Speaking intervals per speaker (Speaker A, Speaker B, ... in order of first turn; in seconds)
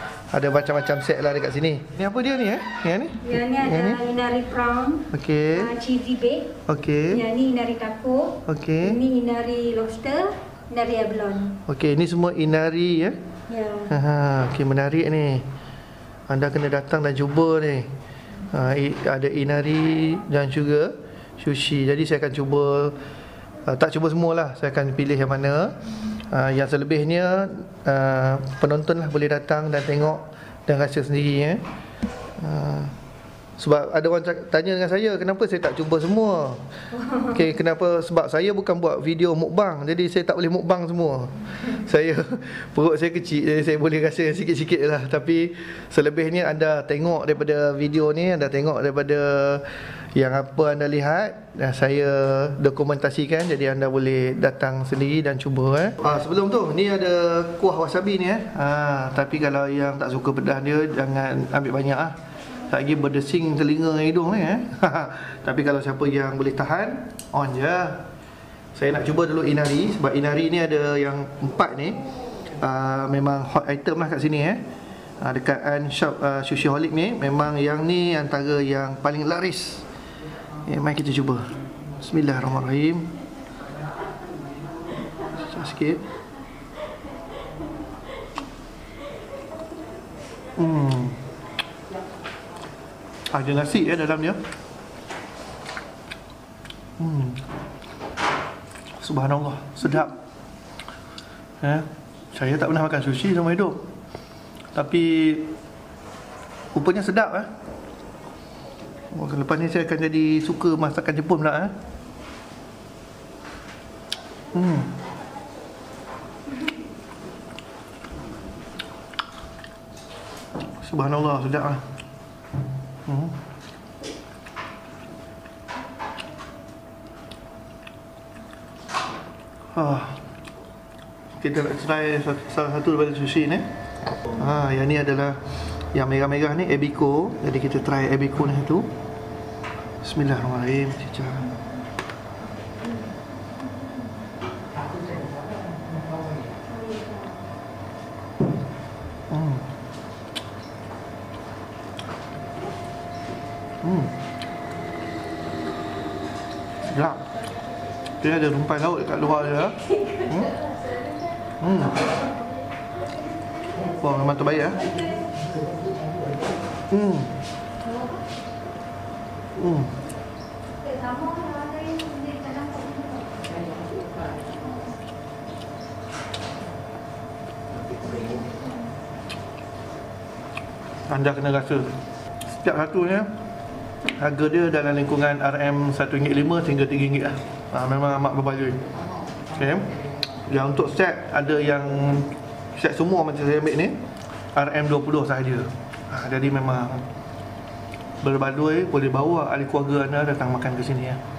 Speaker A: 0.3-4.0, 5.1-5.7, 6.7-7.2, 8.4-9.0, 11.7-13.2, 13.9-15.4, 16.3-17.9, 18.5-23.0, 23.6-31.6, 32.4-32.9, 33.6-36.6, 37.2-62.1, 62.7-68.0, 68.7-72.0, 72.5-74.6, 75.2-79.8, 80.7-83.1, 85.3-86.0, 90.5-91.2, 93.3-94.4, 97.0-97.4, 99.0-100.2, 101.6-103.8, 104.7-105.5, 106.7-107.5, 109.1-111.7, 114.5-114.9, 120.8-121.8, 123.0-123.3, 129.7-130.2, 131.4-133.7, 134.3-135.4, 135.9-138.9, 140.0-141.5, 149.3-149.7, 153.8-154.1, 156.9-157.2, 158.2-160.6, 161.6-162.0, 163.8-164.8, 166.9-167.3, 169.6-169.9, 181.1-181.9, 182.5-183.3, 184.1-188.8, 189.4-194.0, 194.5-197.0, 198.2-201.2
Speaker B: 3.2-6.5, 7.1-11.6, 13.5-13.9, 170.8-173.3